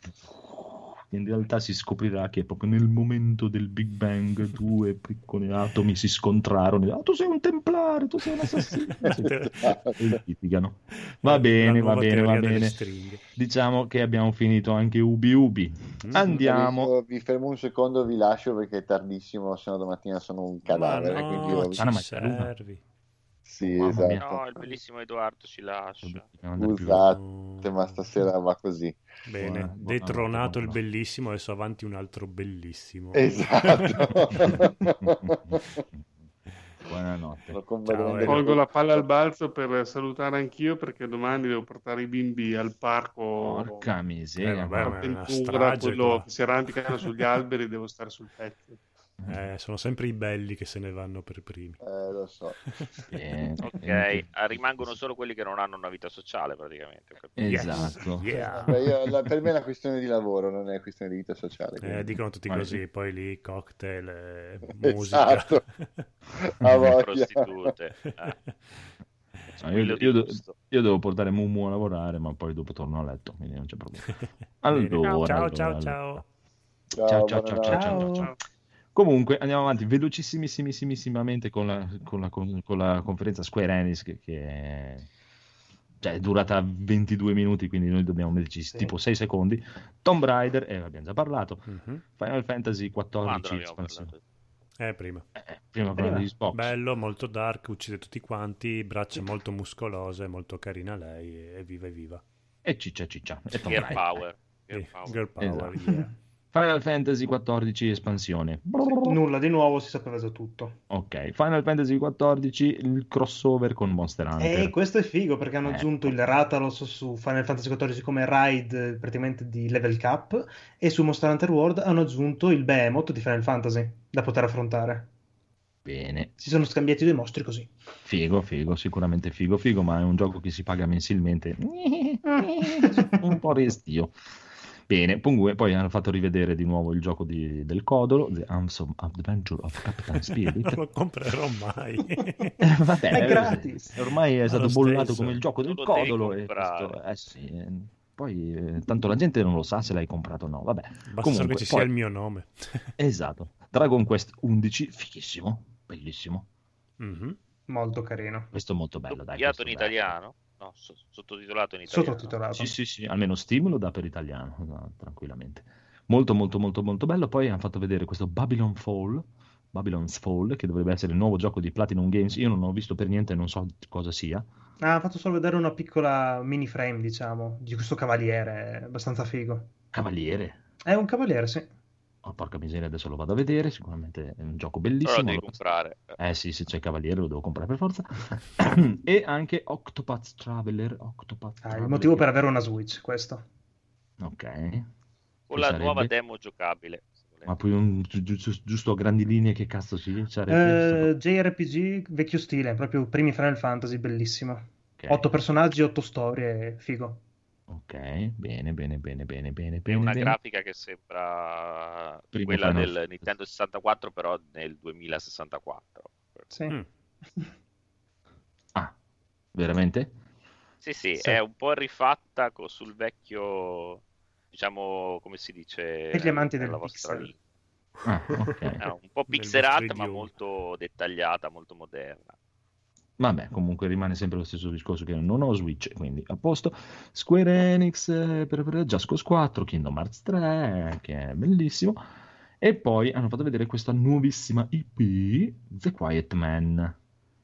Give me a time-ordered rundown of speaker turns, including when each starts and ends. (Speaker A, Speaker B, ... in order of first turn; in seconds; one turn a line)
Speaker A: 0.3-12.8
Speaker B: 8.6-9.6
Speaker C: 9.6-10.2
Speaker B: 11.1-13.2
Speaker A: 13.3-16.9
Speaker B: 16.0-16.4
Speaker C: 16.1-21.9
Speaker B: 20.7-22.8
Speaker A: 21.8-22.5
Speaker C: 23.4-24.2
Speaker A: 23.6-24.4
Speaker D: 24.1-26.2
Speaker A: 26.0-27.1
Speaker C: 26.6-29.0
Speaker B: 27.0-27.9
Speaker B: 29.3-34.5
Speaker A: 29.4-30.8
Speaker C: 33.1-35.8
Speaker A: 34.3-36.1
Speaker A: 36.9-37.6
Speaker C: 37.5-39.0
Speaker B: 37.9-38.5
Speaker E: 38.2-43.9
Speaker A: 43.4-45.0
Speaker B: 44.4-46.2
Speaker E: 44.8-48.8
Speaker B: 46.9-47.3
Speaker A: 49.2-49.4
Speaker B: 49.3-51.8
Speaker C: 51.8-52.6
Speaker B: 52.7-53.0
Speaker A: 53.1-54.3
Speaker D: 53.6-58.0
Speaker A: 57.4-58.3
Speaker B: 57.5-59.0
Speaker C: 58.3-62.2
Speaker B: 61.8-66.0
Speaker A: 62.5-62.8
Speaker C: 64.8-65.6
Speaker C: 66.4-67.7
Speaker D: 66.7-68.3
Speaker B: 68.2-68.5
Speaker D: 69.6-70.5
Speaker A: 69.6-76.2
Speaker B: 74.7-76.2
Speaker C: 77.0-78.1
Speaker A: 77.0-78.3
Speaker F: 77.7-78.3
Speaker A: 78.9-85.1
Speaker A: 86.0-94.1
Speaker B: 91.7-92.0
Speaker D: 93.2-94.2
Speaker B: 94.8-95.2
Speaker A: 95.3-96.7
Speaker F: 96.0-96.3
Speaker B: 96.5-102.2
Speaker A: 102.6-104.2
Speaker D: 103.6-105.2
Speaker B: 104.7-106.1
Speaker A: 105.4-105.7
Speaker F: 105.8-106.1
Speaker A: 106.5-109.2
Speaker F: 108.8-110.8
Speaker A: 110.9-114.7
Speaker F: 114.4-125.1
Speaker A: 115.6-116.1
Speaker A: 125.8-126.3
Speaker F: 126.4-127.7
Speaker A: 128.0-134.1
Speaker F: 132.8-133.2
Speaker A: 134.9-140.8
Speaker B: 140.2-142.6
Speaker A: 142.6-151.9
Speaker F: 143.1-143.9
Speaker B: 143.1-143.5
Speaker B: 144.4-145.4
Speaker D: 145.6-146.9
Speaker B: 151.1-152.9
Speaker A: 153.0-156.5
Speaker B: 157.0-157.4
Speaker F: 157.7-158.5
Speaker A: 158.5-160.2
Speaker D: 159.1-162.4
Speaker F: 161.9-162.8
Speaker A: 162.5-174.4
Speaker F: 174.8-179.7
Speaker A: 179.9-180.6
Speaker F: 180.8-181.7
Speaker A: 182.2-185.6
Speaker D: 185.0-186.2
Speaker A: 186.2-192.3
Speaker F: 191.6-193.4
Speaker A: 194.2-194.9
Speaker D: 195.5-197.5
Speaker A: 195.5-196.1
Speaker A: 197.4-201.1
Speaker F: 200.5-207.2
Speaker A: 205.0-205.3
Speaker A: 207.7-210.4
Speaker D: 209.9-216.5
Speaker A: 212.3-213.3
Speaker F: 216.5-216.8
Speaker A: 219.5-220.1
Speaker D: 220.8-227.3
Speaker F: 226.1-227.3
Speaker A: 228.0-228.8
Speaker D: 228.8-232.3
Speaker B: 229.3-230.3
Speaker A: 233.2-242.0
Speaker A: 242.6-246.9